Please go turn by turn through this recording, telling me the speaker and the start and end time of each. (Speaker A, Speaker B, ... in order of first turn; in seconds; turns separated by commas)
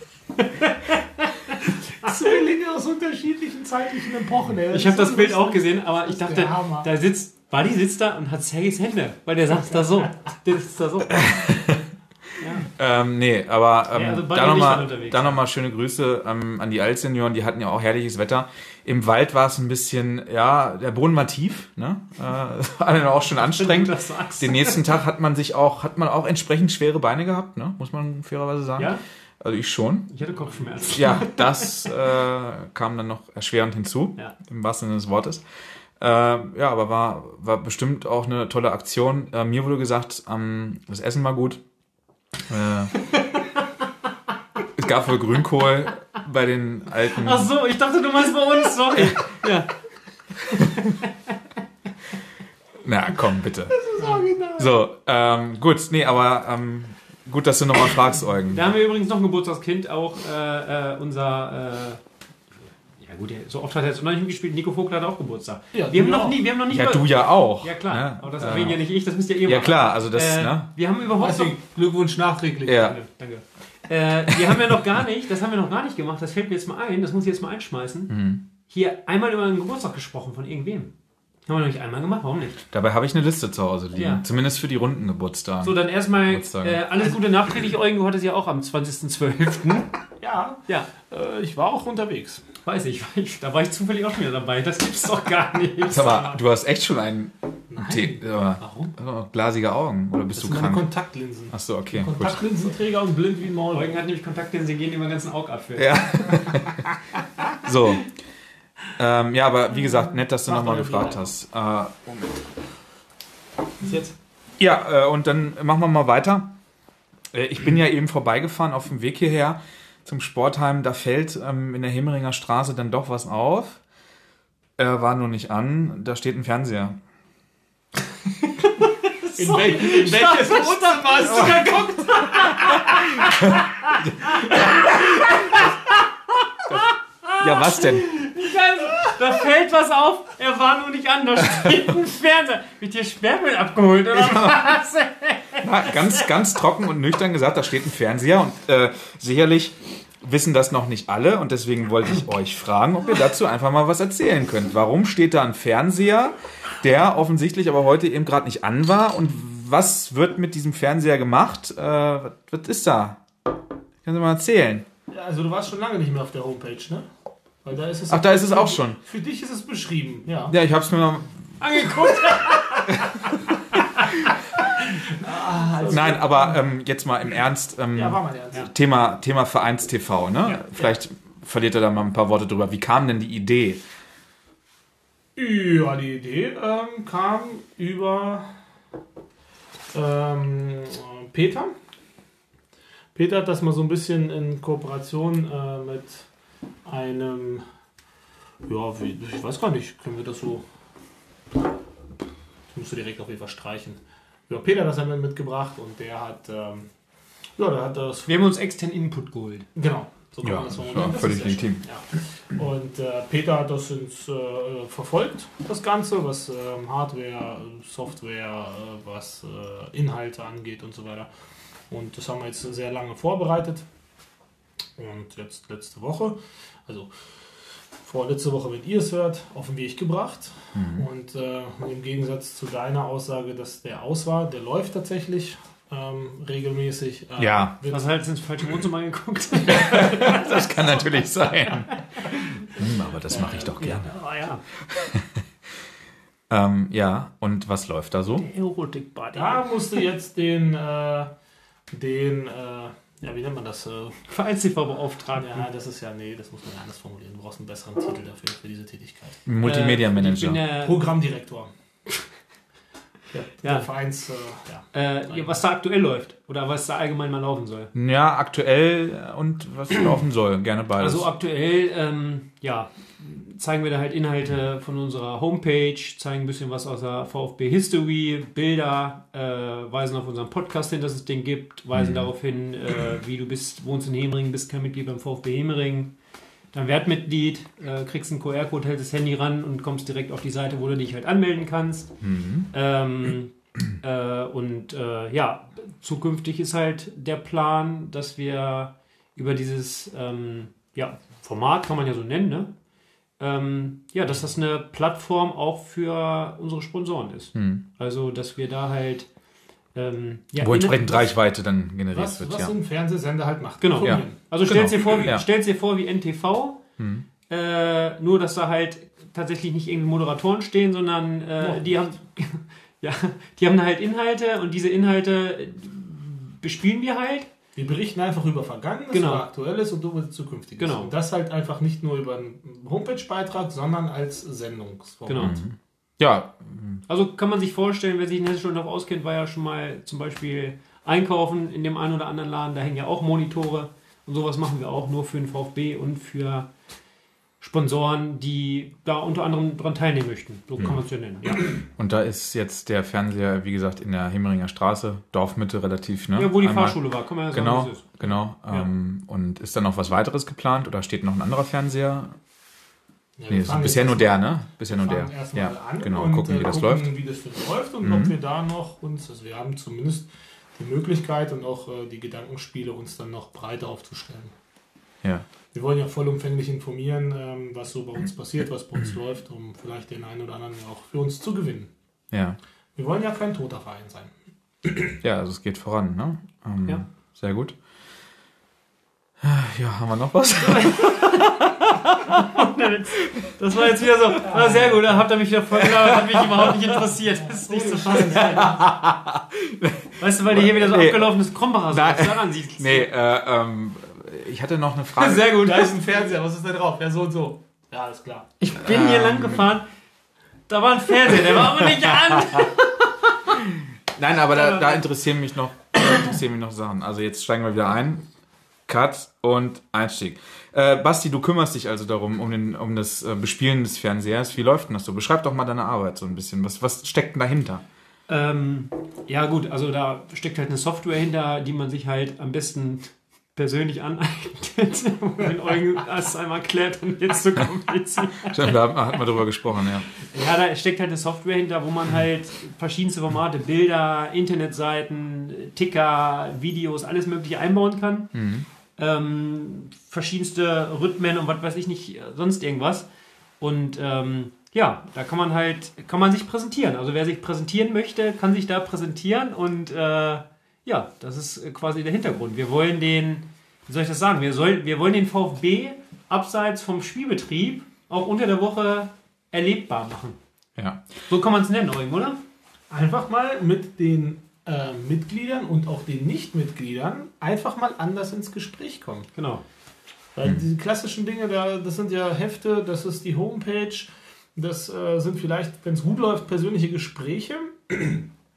Speaker A: 0.4-2.1, Speaker B: 2.0-6.9, Speaker A: 4.7-11.6, Speaker C: 11.1-11.8, Speaker A: 12.4-12.7, Speaker C: 12.8-30.1, Speaker A: 13.9-15.4, Speaker A: 23.4-24.9, Speaker A: 28.8-29.0, Speaker A: 30.1-31.9, Speaker C: 30.9-35.4, Speaker C: 36.0-41.6, Speaker C: 42.5-42.9, Speaker A: 43.1-43.5, Speaker C: 44.8-47.5, Speaker A: 47.1-49.7, Speaker A: 50.4-51.3, Speaker C: 52.8-53.8, Speaker B: 53.9-54.7, Speaker A: 54.0-54.2, Speaker C: 54.6-58.7, Speaker A: 58.5-62.0, Speaker A: 63.0-71.6, Speaker B: 65.7-66.4, Speaker C: 66.7-68.8, Speaker C: 69.4-70.7, Speaker B: 71.1-73.0, Speaker C: 72.7-73.0, Speaker A: 72.8-78.2, Speaker C: 78.1-78.4, Speaker A: 78.7-80.9, Speaker A: 81.5-82.7, Speaker C: 82.7-86.8, Speaker A: 83.9-84.2, Speaker A: 85.6-89.9, Speaker B: 90.2-92.5, Speaker A: 92.6-96.4, Speaker C: 95.9-100.8, Speaker B: 97.7-98.9, Speaker B: 100.3-103.9, Speaker C: 101.5-102.4, Speaker A: 103.7-106.4, Speaker C: 105.8-106.9, Speaker C: 107.6-108.1, Speaker C: 109.0-112.4, Speaker B: 110.4-111.3, Speaker B: 113.8-114.1, Speaker C: 114.6-116.5, Speaker C: 117.3-123.8, Speaker C: 124.8-127.0, Speaker A: 128.4-133.4, Speaker B: 129.4-133.3, Speaker A: 133.9-135.7, Speaker A: 136.7-146.2, Speaker C: 137.4-138.1, Speaker C: 144.1-144.7, Speaker C: 145.6-163.2, Speaker C: 164.0-164.9, Speaker B: 165.1-167.1, Speaker B: 167.6-170.6, Speaker C: 168.1-169.0, Speaker C: 170.5-171.9, Speaker A: 171.6-173.3, Speaker B: 175.1-176.6, Speaker C: 175.8-183.8, Speaker B: 177.9-178.7, Speaker B: 185.3-188.5, Speaker B: 189.9-191.7, Speaker B: 193.1-196.3, Speaker B: 196.8-197.6, Speaker B: 198.6-200.6, Speaker B: 202.7-206.9, Speaker B: 207.6-208.4, Speaker A: 208.3-209.7, Speaker B: 209.8-221.3, Speaker C: 210.4-211.8, Speaker B: 221.9-223.8, Speaker B: 225.0-227.1, Speaker B: 228.0-238.1, Speaker C: 230.7-231.1, Speaker C: 237.4-237.8, Speaker A: 237.9-240.9, Speaker C: 239.7-244.1, Speaker B: 243.3-244.1, Speaker A: 244.0-244.6, Speaker C: 244.9-245.3, Speaker C: 246.5-248.5, Speaker A: 248.4-249.7, Speaker B: 249.3-251.3, Speaker B: 251.9-254.2, Speaker A: 254.3-255.6, Speaker B: 255.4-259.4, Speaker C: 259.4-260.6, Speaker A: 259.6-261.1, Speaker B: 260.8-261.7, Speaker B: 263.3-265.6, Speaker A: 263.6-263.9, Speaker A: 264.9-267.9, Speaker C: 267.9-271.2, Speaker A: 271.0-286.1, Speaker C: 281.9-282.3, Speaker A: 286.7-292.2, Speaker C: 292.2-292.7, Speaker A: 292.7-302.7, Speaker A: 303.4-309.3, Speaker C: 307.5-307.8, Speaker A: 309.9-311.3, Speaker C: 310.6-312.7, Speaker B: 312.1-314.4, Speaker A: 313.8-316.8, Speaker C: 314.0-315.4, Speaker C: 317.0-317.2, Speaker A: 317.5-327.5, Speaker B: 321.6-322.1, Speaker B: 327.8-335.6, Speaker A: 329.1-329.4, Speaker A: 330.8-331.1, Speaker A: 335.3-335.6, Speaker C: 335.4-337.0, Speaker A: 337.1-346.7, Speaker A: 347.6-351.7, Speaker C: 351.9-362.4, Speaker A: 356.3-358.9, Speaker B: 363.4-374.5, Speaker C: 363.5-367.1, Speaker C: 368.0-368.3, Speaker B: 375.7-381.9, Speaker C: 382.3-382.6, Speaker B: 382.9-384.3, Speaker B: 384.8-385.1, Speaker C: 385.2-387.8, Speaker C: 389.4-392.4, Speaker A: 390.6-391.7, Speaker A: 392.2-398.8, Speaker C: 395.8-396.4, Speaker B: 397.4-398.8, Speaker C: 398.3-405.6, Speaker A: 400.2-403.1, Speaker A: 405.2-406.0, Speaker B: 405.6-408.5, Speaker A: 408.6-409.9, Speaker C: 408.8-409.7, Speaker A: 410.7-413.3, Speaker C: 411.5-412.4, Speaker C: 413.7-418.2, Speaker A: 414.5-415.0, Speaker C: 418.9-427.8, Speaker A: 428.3-438.8, Speaker C: 438.4-440.1, Speaker A: 440.2-448.3, Speaker C: 448.3-448.6, Speaker A: 449.0-453.1, Speaker A: 453.6-470.4, Speaker C: 470.8-471.1, Speaker A: 471.3-472.4, Speaker B: 472.9-479.3, Speaker A: 479.3-479.6, Speaker B: 480.3-488.3